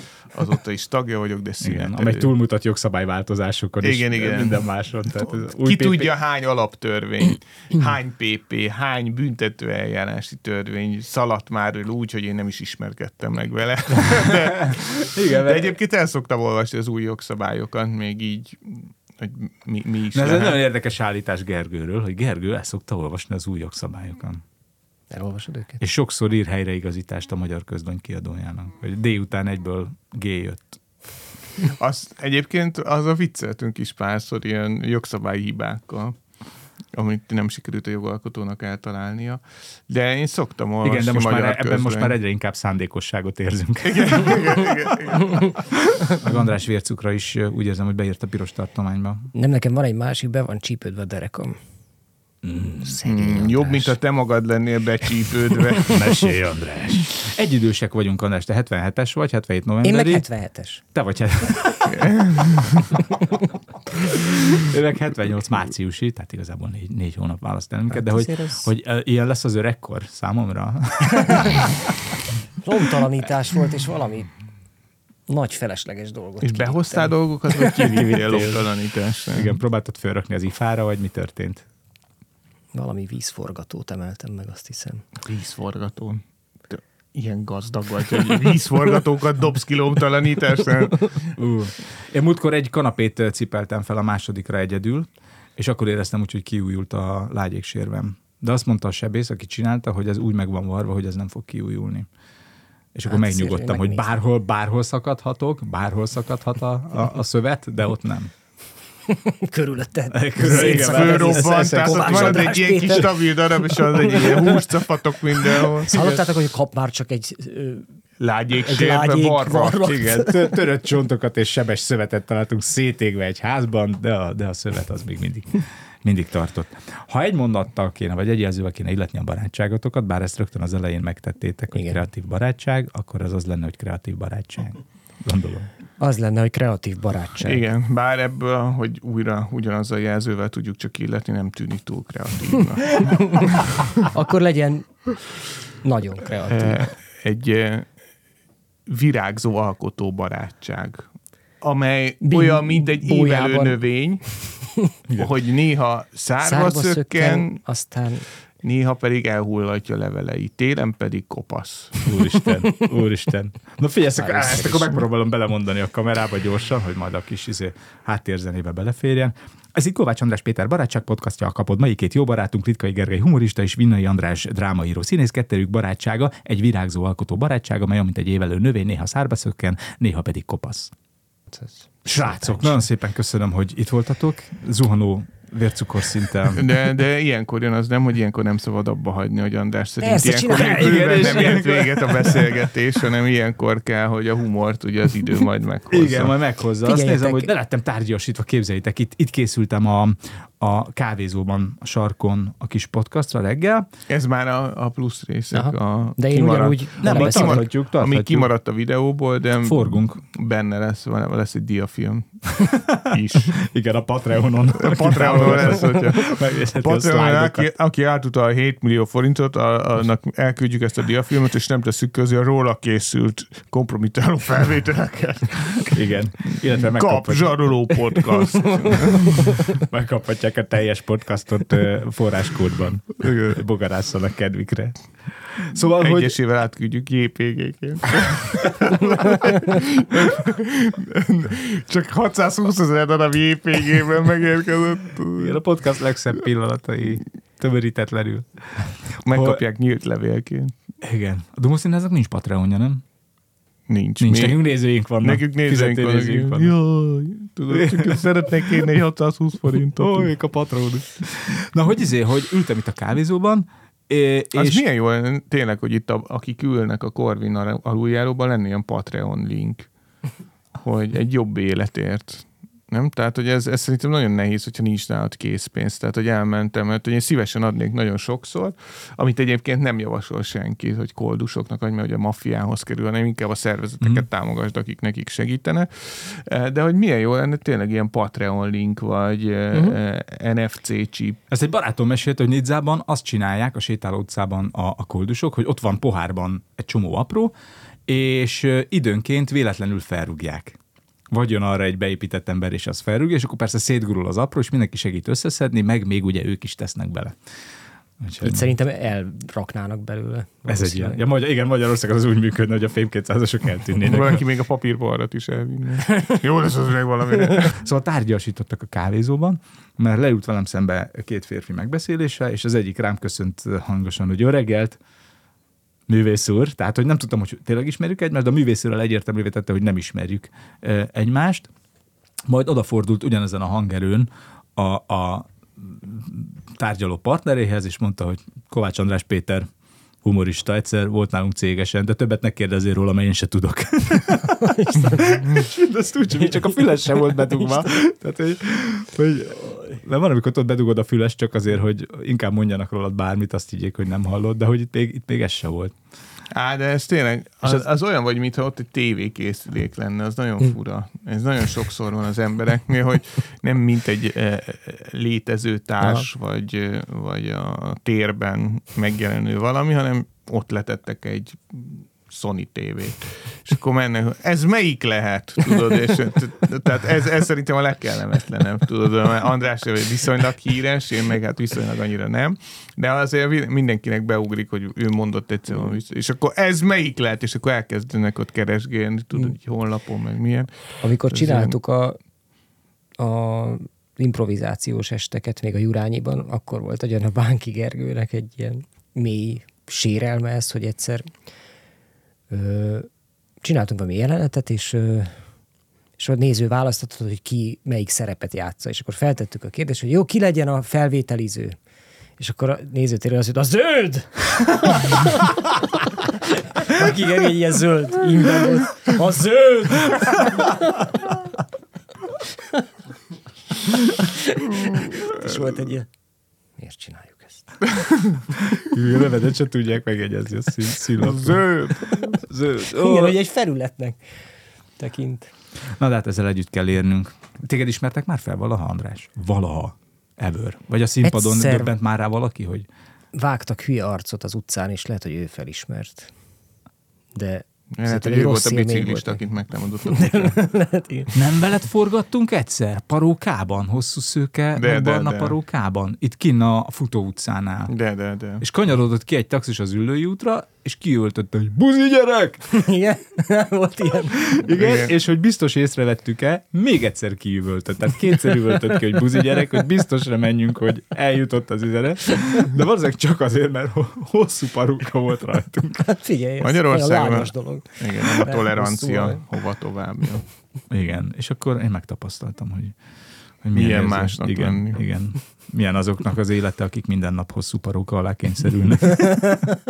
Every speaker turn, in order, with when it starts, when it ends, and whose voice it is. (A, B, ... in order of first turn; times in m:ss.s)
0:00.3-0:02.3 A
0:01.6-0:06.1 B
0:03.8-0:04.7 A
0:05.2-0:20.6 A
0:14.2-0:15.8 B
0:20.1-0:24.4 B
0:25.1-0:25.8 C
0:25.8-0:30.8 B
0:31.6-0:36.2 A
0:36.9-0:42.2 A
0:40.8-0:44.6 B
0:43.8-0:45.5 A
0:45.9-0:49.3 B
0:49.4-0:51.6 C
0:52.4-0:53.0 B
0:52.8-0:54.0 C
0:53.0-0:56.0 A
0:55.8-1:00.3 B
0:59.8-1:00.8 C
1:00.9-1:02.1 B
1:01.8-1:02.9 A
1:04.2-1:11.7 B
1:07.9-1:08.7 C
1:11.2-1:11.6 C
1:12.6-1:14.3 C
1:15.3-1:17.1 C
1:16.4-1:19.6 A
1:17.8-1:18.6 B
1:19.3-1:21.6 B
1:22.7-1:25.0 C
1:25.2-1:31.3 A
1:31.4-1:42.1 B
1:43.0-1:48.3 B
1:43.1-1:44.1 C
1:49.1-1:54.6 C
1:50.1-1:53.0 B
1:50.4-1:55.9 A
1:55.4-1:57.8 C
1:55.9-1:56.2 B
1:58.2-2:00.0 A
1:58.6-2:00.6 C
1:59.8-2:15.7 B
2:11.8-2:12.0 C
2:16.0-2:17.6 C
2:17.4-2:23.8 A
2:24.0-2:25.1 C
2:25.8-2:26.9 C
2:26.5-2:27.9 A
2:28.9-2:31.1 A
2:31.6-2:34.4 A
2:32.2-2:33.8 C
2:35.2-2:37.6 A
2:36.4-2:38.3 C
2:38.6-2:42.0 A
2:42.0-3:00.9 B
2:44.2-2:45.0 C
3:01.5-3:02.8 C
3:02.1-3:06.7 B
3:06.6-3:16.4 A
3:10.0-3:11.6 C
3:10.4-3:12.7 B
3:15.9-3:23.9 B
3:16.8-3:17.5 C
3:24.1-3:33.6 A
3:25.5-3:27.7 C
3:27.0-3:28.5 B
3:29.6-3:30.2 B
3:32.7-3:33.0 B
3:33.5-3:37.7 B
3:34.7-3:49.5 A
3:45.8-3:48.0 B
3:49.8-3:55.0 B
3:53.2-3:53.6 A
3:55.6-3:56.4 B
3:55.8-4:05.6 A
4:05.4-4:09.6 B
4:09.2-4:10.7 A
4:11.0-4:13.0 B
4:13.9-4:14.6 A
4:14.2-4:16.8 B
4:15.2-4:20.3 A
4:17.7-4:18.9 B
4:20.0-4:24.8 B
4:24.5-4:29.9 A
4:30.8-4:51.4 A
4:51.5-4:57.6 B
4:58.1-5:00.8 B
5:01.3-5:07.4 B
5:08.2-5:08.8 B
5:08.4-5:11.2 C
5:10.7-5:14.4 B
5:14.0-5:17.8 A
5:17.7-5:25.0 B
5:26.1-5:31.7 B
5:32.5-5:39.7 B
5:40.2-5:55.9 B
5:44.6-5:45.5 C
5:47.4-5:47.8 C
5:56.5-6:31.8 A
6:06.0-6:06.3 C
6:31.0-6:32.2 C
6:33.2-6:41.3 C
6:42.5-6:43.1 C
6:43.6-6:45.4 C
6:46.2-6:51.8 C
6:52.4-6:55.7 C
6:56.6-7:01.1 C
7:04.1-7:06.1 C
7:06.8-7:07.9 C
7:08.8-7:13.4 B
7:11.2-7:12.2 A
7:13.0-7:14.2 C
7:15.0-7:15.5 C
7:16.0-7:22.9 B
7:21.2-7:21.9 C
7:23.3-7:26.3 C
7:27.3-7:29.4 C
7:28.0-7:30.6 A
7:30.1-7:31.3 C
7:31.3-7:37.9 B
7:34.8-7:35.6 A
7:37.9-7:38.6 A
7:38.6-7:42.8 B
7:42.7-7:44.6 C
7:44.4-7:56.1 B
7:44.7-7:45.1 A
7:56.1-7:59.4 C
7:56.6-8:00.4 A
8:00.9-8:03.0 B
8:03.6-8:09.7 B
8:03.7-8:05.0 A